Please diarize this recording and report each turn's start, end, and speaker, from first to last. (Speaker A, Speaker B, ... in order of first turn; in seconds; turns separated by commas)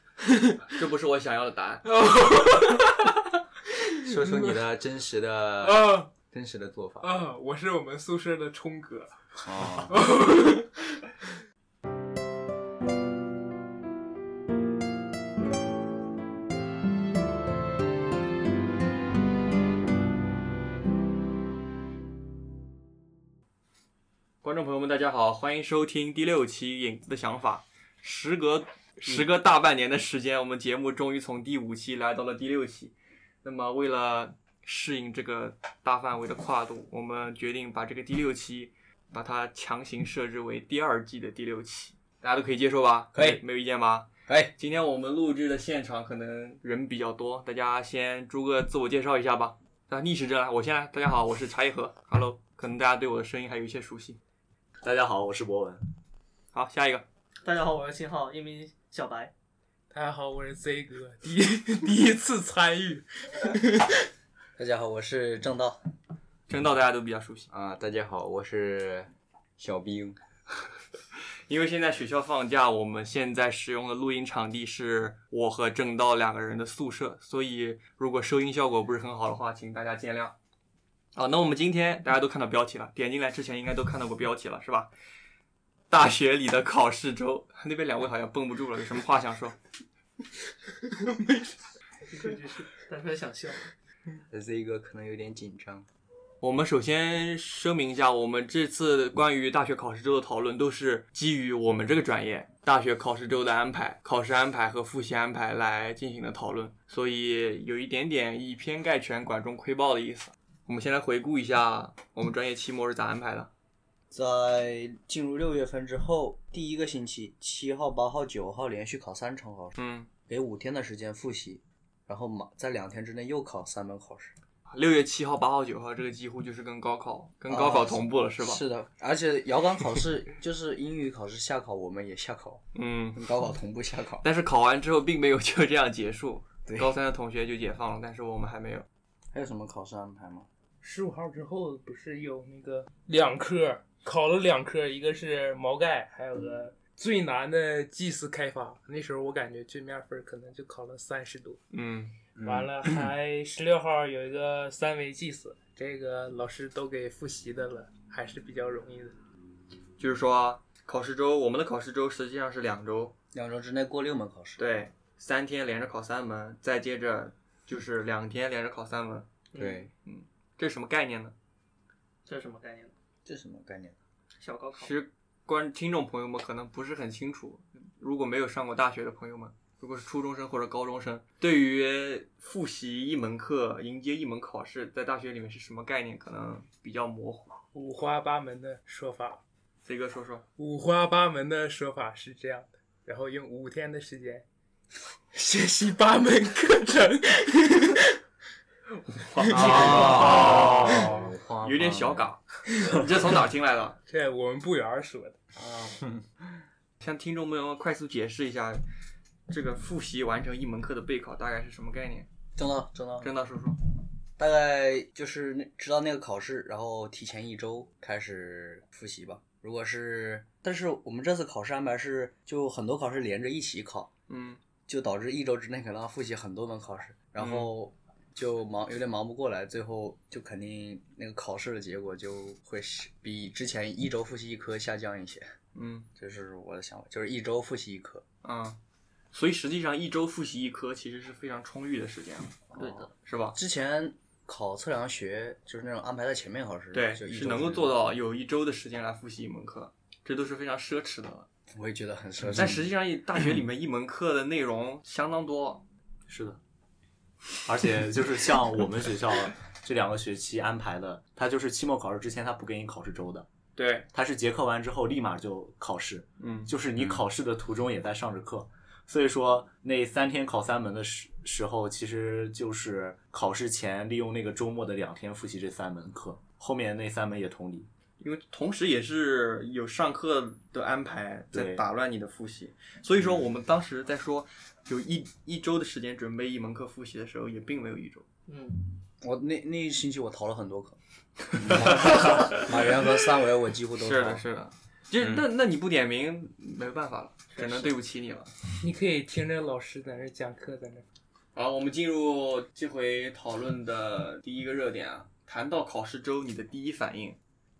Speaker A: 0.2-0.6, Speaker B: 0.7-1.8, Speaker A: 1.8-3.2, Speaker A: 3.8-4.6, Speaker C: 4.0-7.1, Speaker A: 5.6-6.2, Speaker A: 7.0-9.2, Speaker D: 9.4-9.9, Speaker A: 9.9-11.0, Speaker B: 24.4-54.2, Speaker D: 43.1-43.4, Speaker D: 44.3-44.5, Speaker E: 54.8-55.8, Speaker B: 56.5-57.0, Speaker F: 57.4-59.3, Speaker A: 59.9-64.1, Speaker D: 64.6-65.8, Speaker B: 66.5-67.5, Speaker C: 67.5-70.2, Speaker B: 71.5-80.3, Speaker B: 81.1-84.9, Speaker B: 85.9-89.5, Speaker F: 92.0-93.6, Speaker D: 94.3-95.8, Speaker B: 96.4-113.5, Speaker D: 114.1-119.8, Speaker B: 119.8-120.1, Speaker D: 120.3-124.3, Speaker B: 124.7-128.6, Speaker D: 127.5-134.2, Speaker B: 132.7-133.2, Speaker B: 134.2-138.8, Speaker D: 136.7-136.9, Speaker D: 139.3-140.5, Speaker A: 140.8-151.6, Speaker B: 151.7-152.1, Speaker C: 152.4-152.9, Speaker A: 152.4-159.1, Speaker B: 160.0-163.1, Speaker D: 163.3-164.6, Speaker B: 164.6-169.3, Speaker F: 169.5-169.8, Speaker C: 169.6-169.9, Speaker B: 170.0-171.3, Speaker F: 172.2-172.9, Speaker D: 173.2-174.0, Speaker F: 174.4-174.9, Speaker B: 174.7-187.5, Speaker A: 187.7-189.4, Speaker B: 189.8-190.4, Speaker A: 190.6-194.4, Speaker A: 195.3-198.2, Speaker B: 199.2-204.0, Speaker A: 199.4-200.2, Speaker C: 199.5-202.3, Speaker D: 199.7-200.9, Speaker A: 200.9-201.2, Speaker A: 202.8-203.0, Speaker A: 204.1-205.4, Speaker D: 205.6-206.0, Speaker B: 207.0-208.8, Speaker B: 209.5-212.3, Speaker D: 212.6-213.3, Speaker B: 213.2-213.8, Speaker D: 214.4-224.1, Speaker B: 224.3-224.6, Speaker D: 224.9-235.5, Speaker B: 227.4-227.7, Speaker B: 235.7-236.1, Speaker D: 236.2-238.2, Speaker B: 238.4-238.8, Speaker B: 239.3-242.6, Speaker F: 242.8-243.1, Speaker D: 242.8-247.9, Speaker B: 243.2-243.6, Speaker B: 246.9-251.5, Speaker D: 251.7-252.9, Speaker B: 252.5-255.8, Speaker E: 256.3-256.6, Speaker E: 257.6-263.5, Speaker B: 263.8-264.1, Speaker E: 264.1-277.9, Speaker B: 266.4-266.7, Speaker B: 278.2-288.2, Speaker E: 281.5-281.8, Speaker F: 288.5-288.8, Speaker D: 289.2-291.0, Speaker D: 291.5-294.4, Speaker B: 291.7-292.6, Speaker B: 294.0-298.5, Speaker A: 298.8-301.0, Speaker B: 301.5-307.4